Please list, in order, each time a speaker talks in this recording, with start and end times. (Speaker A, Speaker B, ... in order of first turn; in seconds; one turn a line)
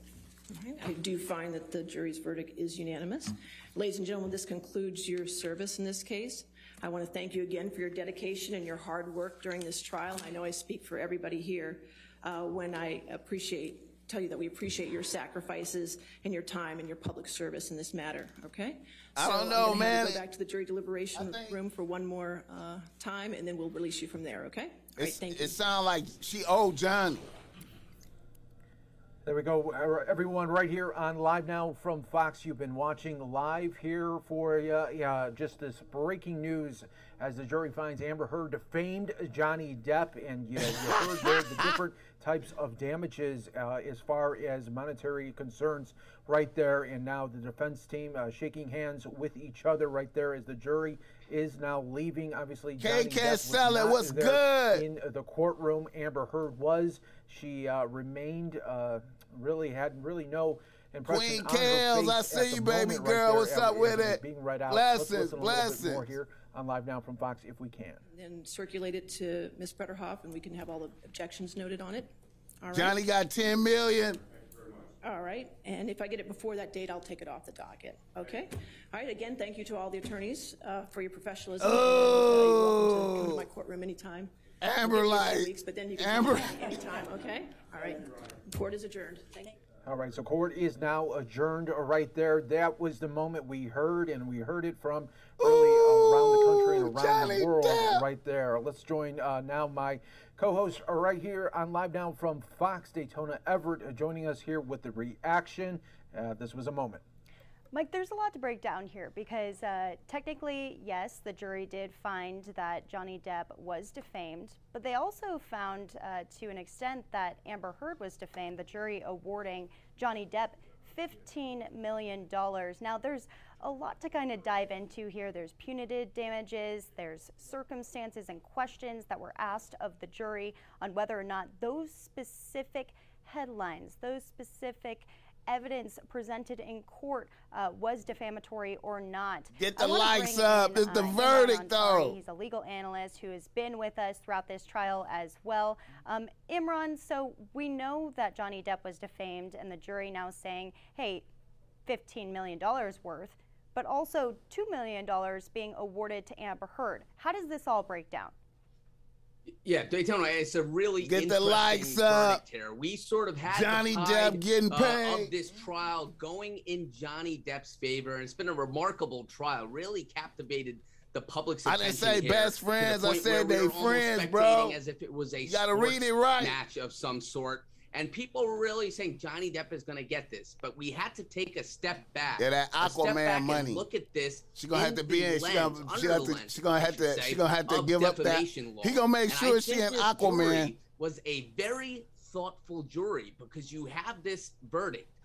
Speaker A: 0.5-25.6
Speaker B: 19.2-20.2
Speaker B: 21.1-21.6
Speaker B: 25.0-27.3
Speaker C: 29.2-68.0
Speaker B: 52.8-54.8
Speaker B: 61.1-66.1
Speaker A: 68.1-73.0
Speaker B: 72.7-74.2
Speaker A: 75.0-89.6
Speaker B: 81.6-83.5
Speaker B: 84.6-86.6
Speaker C: 89.8-107.0
Speaker B: 95.4-98.0
Speaker D: 107.7-151.3
Speaker B: 139.6-142.2
Speaker D: 151.9-158.3
Speaker E: 159.7-195.1
Speaker B: 161.0-162.4
Speaker B: 163.5-165.3
Speaker B: 171.7-174.8
Speaker B: 175.4-176.6
Speaker B: 182.4-183.8
Speaker B: 184.6-190.8